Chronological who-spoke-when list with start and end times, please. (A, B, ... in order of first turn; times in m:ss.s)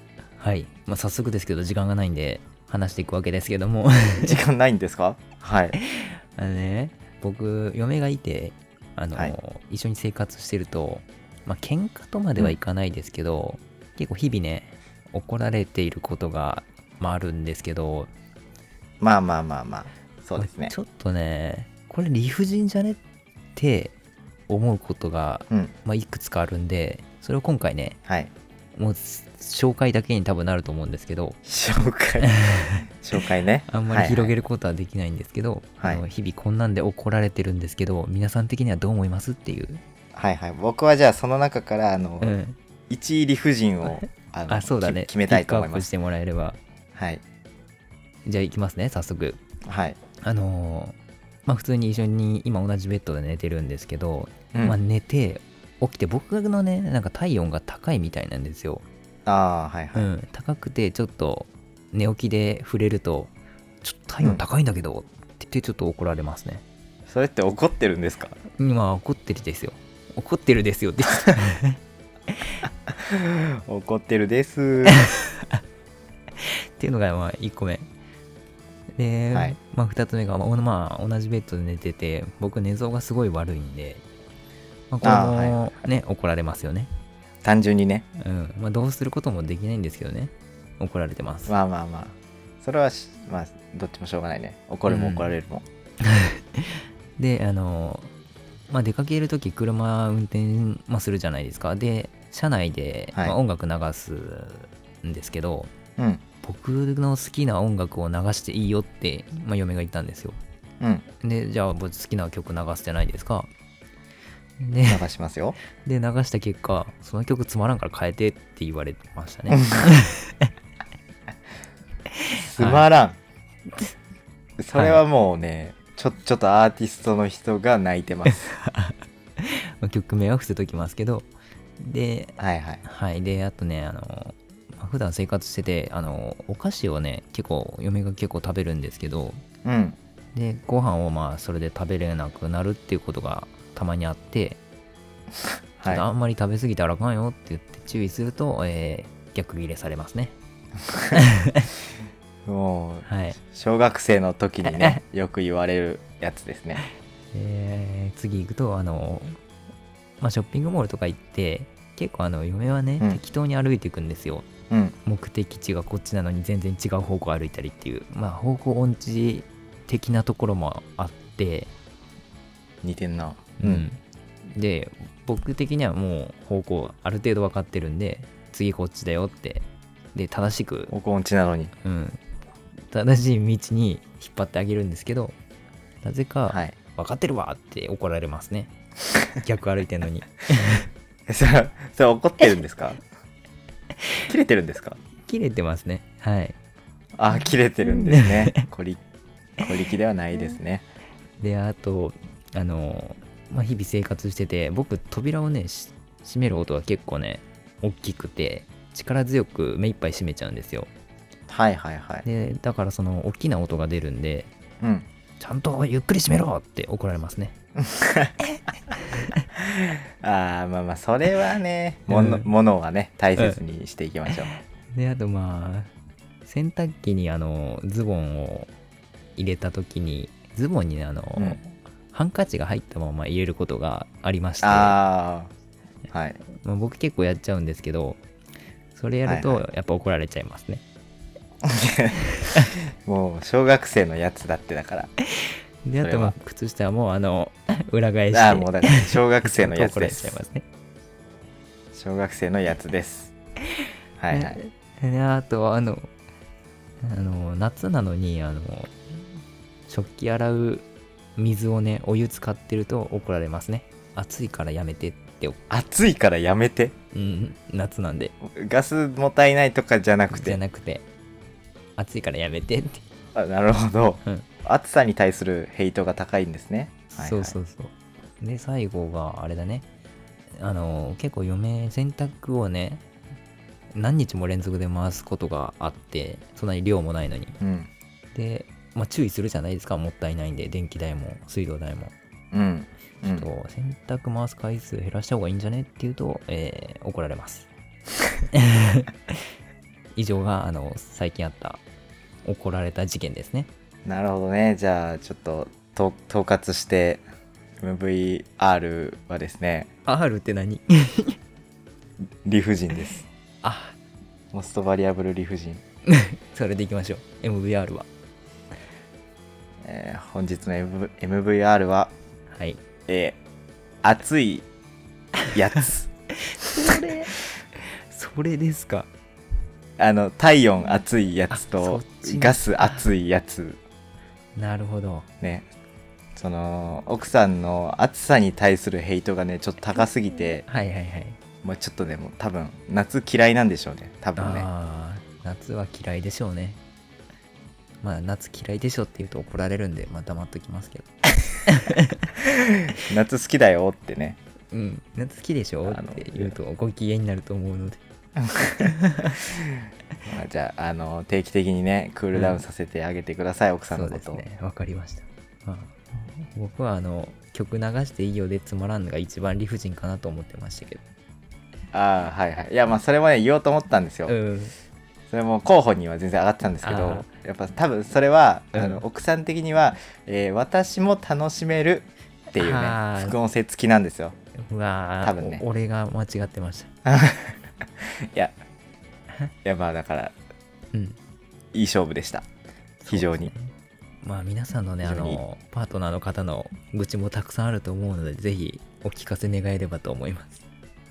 0:00.4-0:04.4 A
0:04.2-0:05.8 B
0:05.8-0:18.1 A
0:19.0-0:20.7 B
0:20.4-0:23.0 A
0:23.6-0:24.0 A
0:24.5-0:28.0 A
0:28.1-0:28.3 B
0:28.8-0:31.4 A
0:31.5-0:34.4 B
0:32.3-0:32.8 A
0:33.7-0:39.8 A
0:35.8-0:36.0 B
0:40.1-0:42.4 B
0:42.2-0:42.6 A
0:42.9-0:45.9 B
0:43.9-0:46.6 A
0:47.0-0:47.2 B
0:48.2-0:49.4 A
0:49.7-0:50.0 B
0:50.2-0:51.0 A
0:51.5-0:58.8 A
0:54.5-0:54.8 B
0:59.3-1:00.1 B
0:59.9-1:06.6 A
1:07.1-1:08.4 B
1:08.6-1:11.8 A
1:13.0-1:15.0 B
1:14.9-1:15.6 A
1:16.4-1:17.9 A
1:19.0-1:24.0 A
1:24.9-1:26.9 A
1:25.0-1:25.7 B
1:27.4-1:28.1 B
1:28.2-1:31.5 A
1:31.5-1:35.6 B
1:34.9-1:35.3 A
1:36.0-1:38.1 A
1:38.7-1:45.7 A
1:46.0-1:46.2 B
1:46.4-1:50.4 A
1:50.8-1:51.1 B
1:51.2-1:53.5 A
1:54.6-1:55.0 A
1:54.9-1:55.6 B
1:55.8-2:00.5 A
2:02.2-2:02.8 A
2:02.4-2:03.2 B
2:04.6-2:08.5 B
2:04.8-2:05.0 A
2:08.3-2:11.3 A
2:11.8-2:19.4 A
2:12.4-2:12.8 B
2:19.6-2:20.0 B
2:20.3-2:24.6 A
2:25.8-2:26.0 B
2:25.9-2:30.4 A
2:31.1-2:31.7 A
2:32.5-2:36.8 B
2:33.0-2:33.4 A
2:34.6-2:35.0 A
2:37.3-2:39.4 A
2:40.2-2:44.5 A
2:44.7-2:45.0 B
2:45.1-2:51.7 A
2:52.8-2:53.9 B
2:53.6-2:54.0 A
2:54.5-3:00.9 A
3:00.9-3:01.7 B
3:01.8-3:02.2 A
3:02.8-3:05.4 A
3:06.0-3:08.7 A
3:06.5-3:06.8 B
3:09.4-3:10.9 A
3:11.3-3:13.0 B
3:14.3-3:15.0 B
3:15.3-3:16.6 A
3:17.2-3:19.0 B
3:17.8-3:18.6 A
3:19.6-3:20.8 B
3:21.4-3:30.9 A
3:31.5-3:32.3 B
3:32.2-3:34.5 A
3:34.8-3:35.1 B
3:35.4-3:37.6 A
3:37.8-3:38.3 B
3:39.0-3:39.4 A
3:39.5-3:44.5 B
3:42.1-3:42.5 A
3:44.3-3:45.9 A
3:46.4-3:48.7 A
3:49.4-3:55.0 A
3:51.4-3:51.6 B
3:54.6-3:55.5 B
3:56.1-3:56.4 B
3:56.5-3:58.2 A
3:58.9-4:00.8 A
3:59.3-3:59.6 B
4:01.6-4:02.2 B
4:02.4-4:02.8 A
4:03.0-4:05.1 B
4:05.4-4:10.6 A
4:06.0-4:06.4 B
4:08.3-4:10.4 B
4:11.9-4:13.3 B
4:14.2-4:14.6 B
4:14.3-4:16.1 A
4:17.0-4:18.9 A
4:19.9-4:20.9 A
4:21.4-4:25.6 A
4:25.7-4:26.9 B
4:27.1-4:28.4 A
4:28.4-4:30.6 B
4:30.3-4:31.0 A
4:32.0-4:33.0 A
4:33.4-4:37.6 B
4:37.1-4:39.8 A
4:40.6-4:43.0 A
4:44.0-4:47.6 A
4:47.6-4:47.9 B
4:48.3-4:52.1 A
4:52.5-4:53.5 B
4:53.3-4:57.7 A
4:58.5-4:59.4 A
5:00.2-5:01.8 A
5:02.4-5:03.7 A
5:04.0-5:07.2 B
5:07.8-5:09.9 B
5:10.1-5:11.4 A
5:12.4-5:13.2 B
5:13.6-5:14.0 A
5:14.5-5:15.8 B
5:16.1-5:18.1 A
5:19.8-5:22.1 B
5:22.5-5:22.8 A
5:23.1-5:23.4 B
5:24.0-5:24.7 B
5:25.5-5:26.1 B
5:26.4-5:27.3 A
5:28.1-5:29.1 A
5:30.0-5:33.8 B
5:31.5-5:33.1 A
5:34.6-5:35.3 A
5:35.4-5:35.7 B
5:36.4-5:40.7 B
5:40.7-5:41.4 A
5:41.6-5:44.7 B
5:44.4-5:46.8 A
5:48.0-5:52.3 A
5:53.0-5:54.4 B
5:54.7-5:58.0 A
5:55.8-5:56.6 B
5:58.4-5:58.9 B
5:58.8-5:59.4 A
6:00.2-6:04.4 B
6:02.3-6:02.6 A
6:03.9-6:11.0 A
6:11.9-6:14.4 B
6:14.3-6:14.7 A
6:15.3-6:24.4 B
6:16.8-6:17.3 A
6:18.7-6:19.0 A
6:22.6-6:23.4 A
6:24.6-6:26.9 A
6:25.2-6:25.6 B
6:27.0-6:28.6 B
6:29.6-6:30.4 B
6:30.9-6:31.2 A
6:31.7-6:32.5 B
6:33.0-6:40.6 A
6:33.1-6:33.5 B
6:35.0-6:35.4 B